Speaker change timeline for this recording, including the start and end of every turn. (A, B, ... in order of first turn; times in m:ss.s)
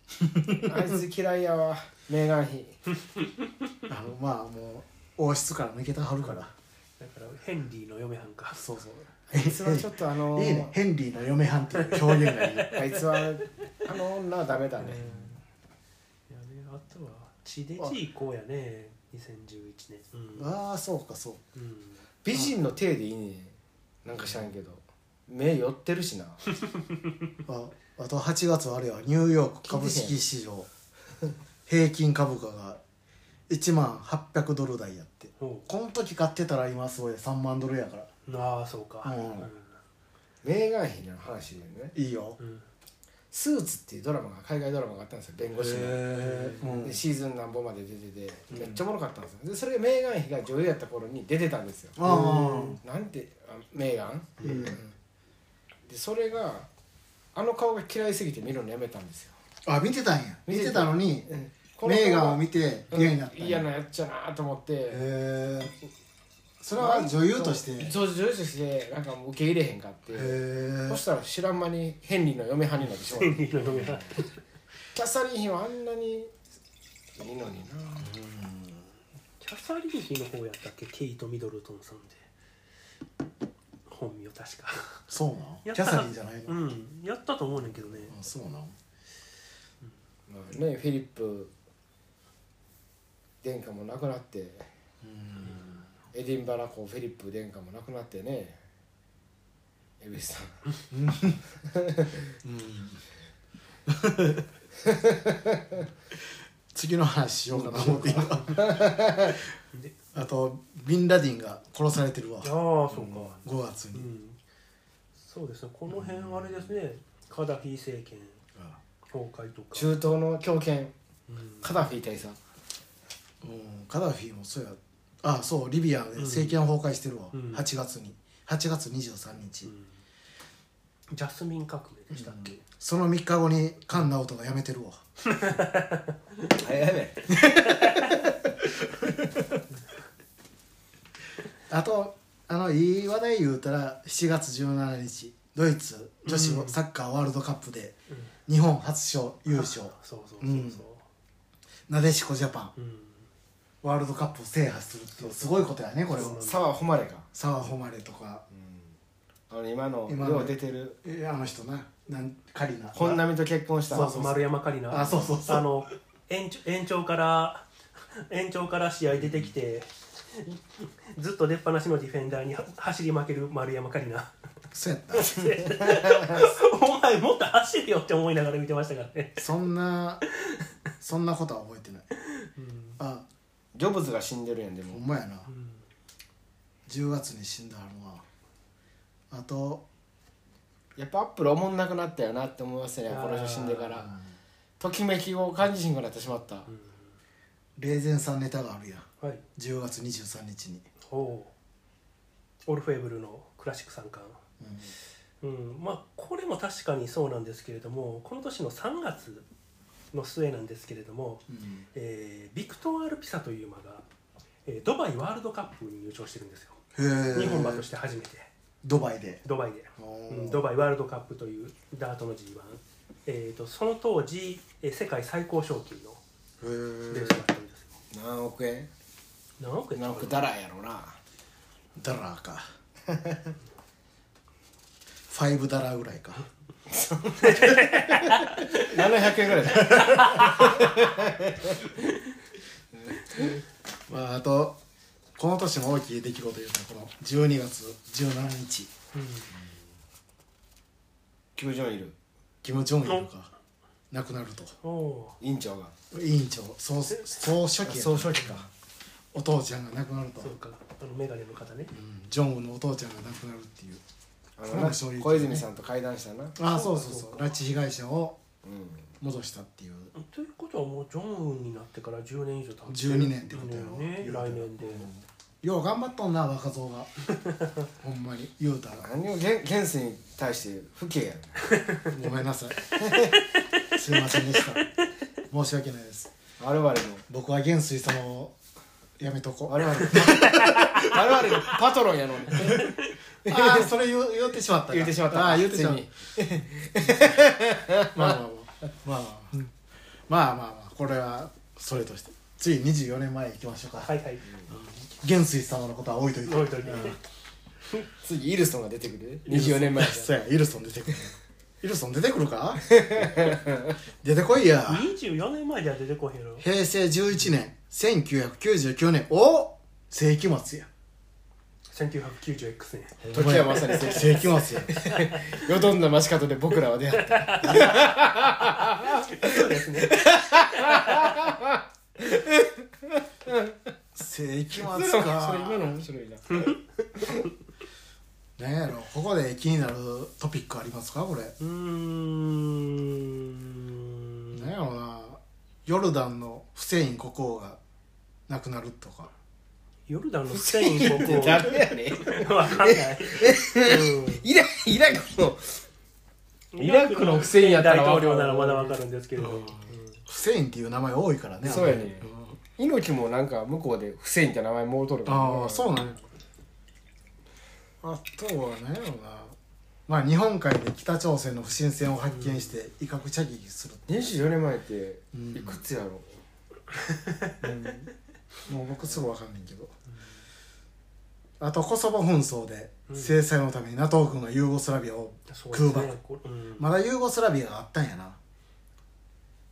0:00.2-0:00.9 A
0:00.5-0:02.8 B
0:03.9-0:06.5 A
0:07.0-0:08.6 C
0:08.5-0:12.8 A
0:09.3-0:10.7 B
0:11.8-0:13.0 C
0:12.7-0:15.3 B
0:14.8-0:15.3 C
0:16.3-0:20.5 C
0:20.3-0:21.4 A
0:21.6-0:22.0 C
0:22.2-0:26.4 B
0:26.7-0:27.0 C
0:27.4-0:30.7 A
0:29.6-0:30.2 B
0:31.7-0:32.8 A
0:33.5-0:38.1 A
0:35.4-0:35.7 C
0:38.2-0:39.7 C
0:39.0-0:39.5 A
0:40.4-0:41.9 B
0:41.9-0:42.4 A
0:42.4-0:42.6 C
0:43.3-0:54.8 B
0:45.6-0:47.0 A
0:46.2-0:46.5 C
0:48.5-0:48.8 A
0:52.0-0:52.8 A
0:52.1-0:52.7 C
0:54.4-0:54.9 A
0:55.9-0:56.7 B
0:57.3-0:59.3 B
0:59.6-1:01.3 A
1:00.5-1:05.1 B
1:01.8-1:03.7 A
1:04.9-1:05.7 A
1:06.6-1:07.9 A
1:06.7-1:13.9 B
1:10.1-1:11.0 A
1:13.0-1:14.3 C
1:13.6-1:14.1 A
1:14.9-1:16.3 B
1:17.1-1:18.1 B
1:18.0-1:18.9 A
1:19.4-1:22.2 C
1:23.9-1:25.0 C
1:25.1-1:26.7 A
1:25.6-1:28.2 C
1:28.1-1:28.7 A
1:30.3-1:31.5 B
1:33.4-1:34.7 B
1:35.0-1:35.9 A
1:36.1-1:38.6 B
1:40.0-1:40.6 B
1:40.9-1:41.4 A
1:41.6-1:42.2 B
1:42.4-1:43.0 A
1:43.9-1:44.5 A
1:44.8-1:45.8 B
1:46.7-1:49.3 A
1:47.5-1:49.4 B
1:48.2-1:48.4 C
1:49.7-1:50.1 C
1:50.1-1:54.1 A
1:52.4-1:54.4 C
1:55.2-1:58.4 C
1:55.9-1:56.7 A
1:59.1-2:00.0 C
1:59.7-2:00.9 B
2:01.3-2:01.8 C
2:01.6-2:02.4 B
2:03.4-2:09.7 A
2:06.2-2:06.6 C
2:07.3-2:07.6 C
2:11.1-2:12.6 C
2:12.1-2:15.0 A
2:15.2-2:16.6 C
2:16.5-2:17.4 B
2:17.3-2:19.6 A
2:17.4-2:18.2 C
2:21.7-2:28.0 A
2:26.2-2:26.8 C
2:28.5-2:30.8 A
2:29.5-2:31.0 C
2:31.9-2:32.7 A
2:32.8-2:33.2 C
2:33.8-2:36.4 A
2:35.2-2:36.7 C
2:36.2-2:37.3 B
2:37.3-2:38.4 A
2:38.5-2:38.8 B
2:39.5-2:41.0 B
2:40.1-2:43.2 A
2:42.9-2:44.1 B
2:43.9-2:45.7 A
2:43.9-2:54.3 C
2:45.0-2:45.3 B
2:49.2-2:49.5 A
2:54.7-2:55.4 A
2:55.1-2:59.5 C
2:55.4-2:56.4 B
2:59.4-3:00.2 A
3:01.0-3:02.1 A
3:02.4-3:03.0 C
3:03.0-3:03.2 A
3:03.7-3:05.0 B
3:04.9-3:05.5 A
3:05.5-3:05.8 C
3:06.9-3:08.2 A
3:09.3-3:09.8 A
3:11.0-3:14.1 B
3:13.1-3:14.1 C
3:14.8-3:16.7 B
3:16.7-3:16.9 C
3:17.8-3:20.8 A
3:21.0-3:21.5 C
3:22.7-3:24.4 C
3:24.6-3:24.9 A
3:25.4-3:29.4 C
3:30.1-3:34.0 C
3:31.5-3:31.8 A
3:34.6-3:36.8 C
3:36.9-3:37.8 A
3:37.3-3:38.5 C
3:38.8-3:39.4 A
3:39.4-3:46.2 C
3:40.0-3:40.6 A
3:46.6-3:47.4 A
3:47.1-3:48.0 C
3:48.1-3:48.9 B
3:49.6-3:50.4 C
3:49.9-3:51.2 B
3:52.0-3:52.7 A
3:53.1-3:53.5 B
3:55.3-3:56.4 A
3:56.9-4:01.8 B
3:57.4-3:59.1 C
3:59.7-4:00.4 A
3:59.7-4:00.8 C
4:02.9-4:03.6 B
4:04.1-4:04.8 A
4:05.4-4:08.9 A
4:09.1-4:09.5 C
4:11.6-4:12.2 B
4:12.6-4:13.5 A
4:14.1-4:14.8 A
4:14.8-4:15.4 C
4:15.4-4:15.9 B
4:16.1-4:18.6 A
4:17.8-4:18.6 B
4:19.3-4:20.5 A
4:20.4-4:21.9 C
4:21.9-4:24.0 A
4:24.6-4:26.6 B
4:24.7-4:25.6 A
4:26.6-4:28.4 A
4:26.6-4:27.5 C
4:28.6-4:29.1 B
4:29.2-4:30.1 A
4:30.1-4:35.1 C
4:32.9-4:37.1 A
4:38.0-4:39.1 A
4:39.0-4:41.7 B
4:42.1-4:42.8 A
4:42.9-4:43.4 B
4:43.9-4:44.9 A
4:45.5-4:46.3 A
4:46.6-4:47.2 B
4:47.3-4:48.5 A
4:49.2-4:51.2 A
4:49.7-4:52.9 B
4:50.4-4:51.1 C
4:52.6-4:52.9 A
4:53.4-4:53.9 B
4:53.4-4:57.4 A
4:54.9-4:58.4 B
4:58.1-4:59.7 A
5:00.3-5:04.1 A
5:04.0-5:04.4 C
5:04.7-5:07.2 A
5:06.4-5:07.2 C
5:07.9-5:10.3 B
5:09.5-5:13.6 A
5:12.8-5:14.0 B
5:14.2-5:15.1 A
5:14.9-5:16.6 C
5:16.6-5:20.9 A
5:21.9-5:24.3 C
5:23.2-5:33.9 B
5:23.3-5:24.9 A
5:25.0-5:25.6 C
5:27.2-5:28.1 C
5:27.6-5:28.0 A
5:28.7-5:31.4 C
5:34.1-5:35.9 A
5:34.8-5:37.5 B
5:38.6-5:41.6 A
5:41.6-5:44.7 C
5:44.5-5:47.8 A
5:48.5-5:49.3 A
5:50.1-5:54.4 C
5:50.5-5:55.8 B
5:56.7-6:00.2 C
5:56.8-5:59.0 B
5:59.4-6:02.6 A
6:01.6-6:06.0 B
6:05.2-6:06.2 A
6:08.0-6:09.6 A
6:10.1-6:14.1 A
6:12.3-6:12.8 C
6:14.1-6:16.4 B
6:15.3-6:15.8 A
6:17.1-6:17.5 C
6:17.6-6:18.1 A
6:18.7-6:19.9 A
6:21.6-6:26.1 A
6:23.1-6:23.4 C
6:25.5-6:26.9 C
6:26.8-6:28.4 A